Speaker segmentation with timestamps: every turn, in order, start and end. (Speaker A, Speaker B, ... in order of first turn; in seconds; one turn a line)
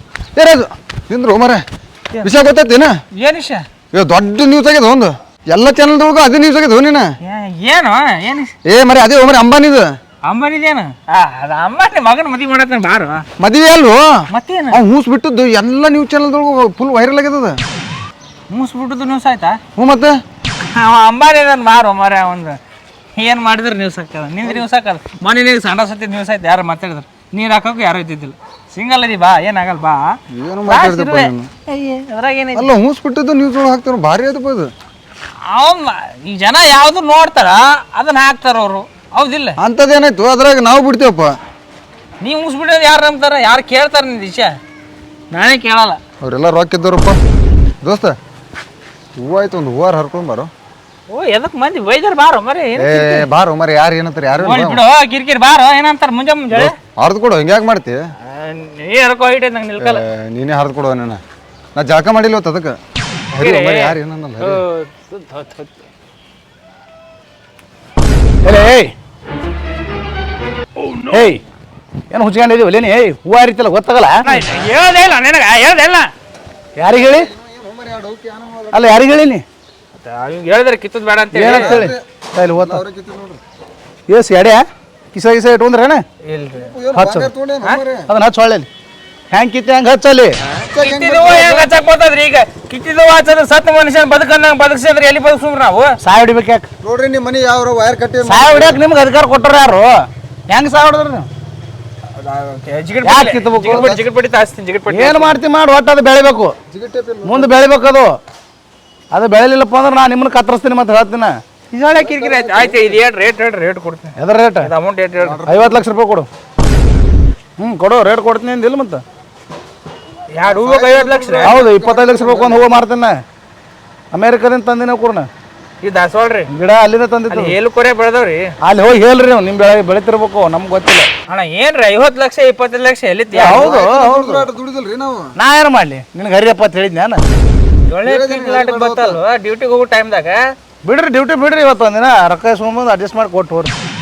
Speaker A: 0.3-1.6
Speaker A: 2.2-2.9
Speaker B: 3.1-3.6
Speaker A: 3.9-7.1
Speaker B: 7.2-8.5
Speaker A: 8.6-9.9
Speaker B: 10.2-13.2
Speaker A: 13.4-14.1
Speaker B: 14.3-14.8
Speaker A: 14.7-17.6
Speaker B: 18.5-19.6
Speaker A: 19.7-20.2
Speaker B: 20.6-22.6
Speaker B: 23.1-30.1
Speaker A: 30.3-31.5
Speaker B: 30.7-32.7
Speaker A: 32.5-34.7
Speaker B: 35.4-39.6
Speaker A: 39.6-41.4
Speaker B: 42.2-44.5
Speaker B: 45.3-46.0
Speaker A: 46.2-47.2
Speaker A: 47.8-48.1
Speaker A: 49.2-50.5
Speaker B: 51.1-53.2
Speaker A: 52.8-54.8
Speaker B: 54.4-56.7
Speaker A: 56.5-58.0
Speaker B: 58.2-60.0
Speaker A: 59.8-61.2
Speaker A: 61.7-62.8
Speaker A: 63.3-64.6
Speaker B: 63.3-65.7
Speaker C: 68.4-68.9
Speaker C: 71.1-71.4
Speaker C: 72.1-74.4
Speaker B: 74.2-76.1
Speaker C: 76.8-77.3
Speaker A: 76.8-79.1
Speaker C: 78.7-79.4
Speaker B: 80.0-81.8
Speaker C: 81.3-82.8
Speaker A: 81.4-83.4
Speaker C: 84.1-86.0
Speaker B: 86.2-86.7
Speaker A: 86.7-88.1
Speaker C: 86.9-87.3
Speaker C: 88.1-88.7
Speaker C: 89.3-90.3
Speaker A: 90.7-91.7
Speaker B: 90.8-95.9
Speaker C: 96.0-96.7
Speaker A: 96.8-98.8
Speaker C: 98.2-101.3
Speaker B: 102.2-105.4
Speaker C: 103.0-104.0
Speaker A: 103.7-104.0
Speaker C: 104.9-106.5
Speaker A: 106.7-107.7
Speaker C: 107.2-108.1
Speaker C: 109.1-111.3
Speaker B: 111.7-115.4
Speaker A: 111.9-113.0
Speaker C: 114.2-114.7
Speaker A: 115.2-115.8
Speaker C: 115.5-116.3
Speaker C: 117.6-119.0
Speaker B: 120.3-121.6
Speaker A: 120.5-122.7
Speaker C: 121.4-123.1
Speaker C: 124.1-125.3
Speaker B: 125.8-126.5
Speaker C: 126.5-127.5
Speaker B: 127.3-128.5
Speaker C: 128.6-131.1
Speaker B: 131.3-133.7
Speaker A: 133.3-135.3
Speaker C: 133.3-134.5
Speaker C: 135.3-137.2
Speaker B: 137.9-140.4
Speaker A: 138.0-139.2
Speaker C: 140.8-143.7